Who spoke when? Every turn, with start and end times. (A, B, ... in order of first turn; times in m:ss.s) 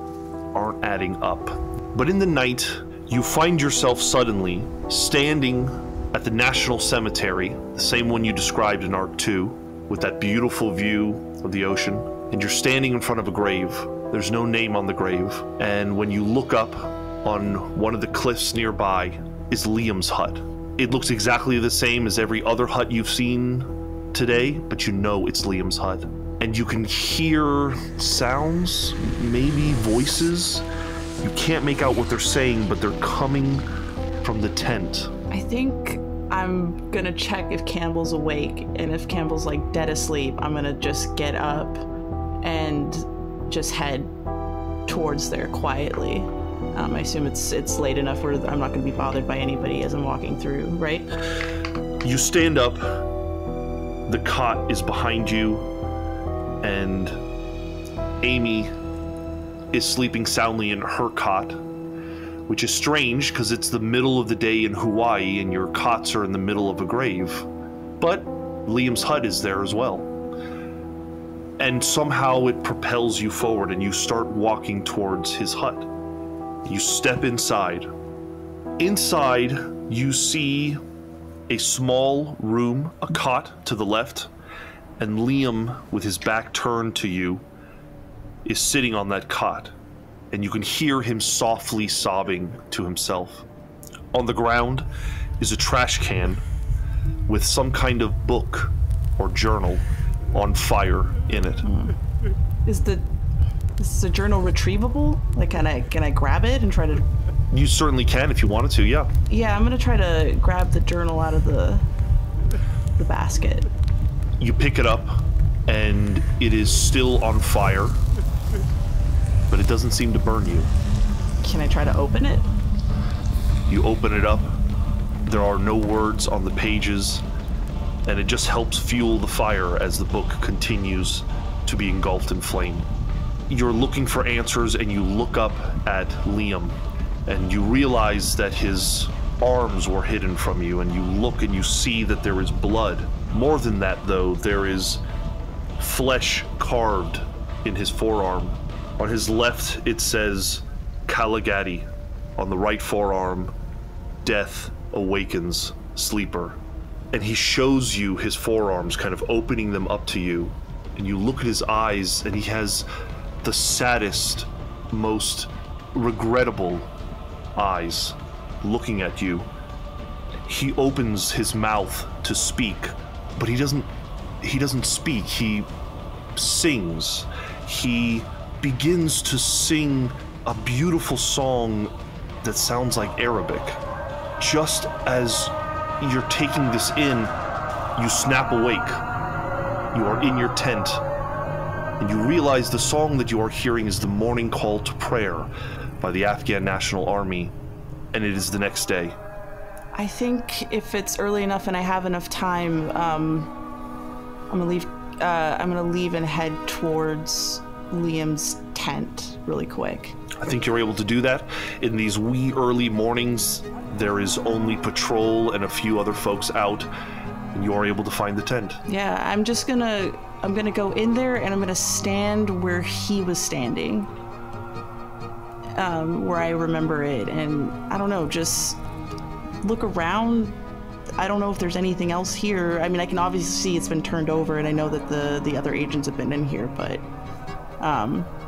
0:00.5-0:30.6 A
0:31.2-0:33.7 A
0:34.2-0:35.1 A
0:35.3-0:41.8 B
0:42.4-0:44.1 B
0:44.9-0:51.1 B
0:52.0-0:53.1 A
0:54.1-0:55.7 A
0:56.6-0:57.2 A
0:58.2-0:58.7 A
0:59.7-1:01.6 A
1:02.5-1:07.5 A
1:08.0-1:10.1 A
1:11.6-1:15.9 A
1:16.6-1:17.9 A
1:18.8-1:20.8 A
1:21.5-1:24.3 A
1:25.0-1:27.4 A
1:28.4-1:29.7 A
1:30.3-1:33.4 A
1:34.1-1:34.9 A
1:35.4-1:36.4 A
1:37.3-1:41.6 A
1:41.6-1:42.0 B
1:42.6-1:43.1 B
1:43.8-1:47.1 B
1:47.5-1:49.1 A
1:49.3-1:51.8 B
1:53.0-1:53.7 B
1:54.4-1:58.0 A
1:59.5-2:00.7 A
2:01.4-2:02.5 B
2:03.7-2:04.5 A
2:05.2-2:07.2 A
2:08.0-2:12.9 A
2:13.5-2:25.0 A
2:25.8-2:33.5 A
2:34.2-2:36.6 A
2:37.1-2:42.9 A
2:43.4-2:46.9 A
2:47.6-2:49.5 A
2:50.5-2:53.9 A
2:54.4-2:55.7 A
2:56.4-3:01.9 A
3:02.4-3:03.8 A
3:04.4-3:07.3 A
3:08.0-3:09.0 A
3:09.9-3:11.0 A
3:12.0-3:15.5 A
3:16.0-3:17.6 A
3:18.1-3:19.2 A
3:19.9-3:23.5 B
3:24.5-3:30.2 B
3:30.4-3:36.9 A
3:37.5-3:38.8 A
3:38.9-3:44.1 B
3:45.8-3:48.8 B
3:49.6-3:50.6 B
3:51.2-3:57.0 B
3:57.8-3:58.3 B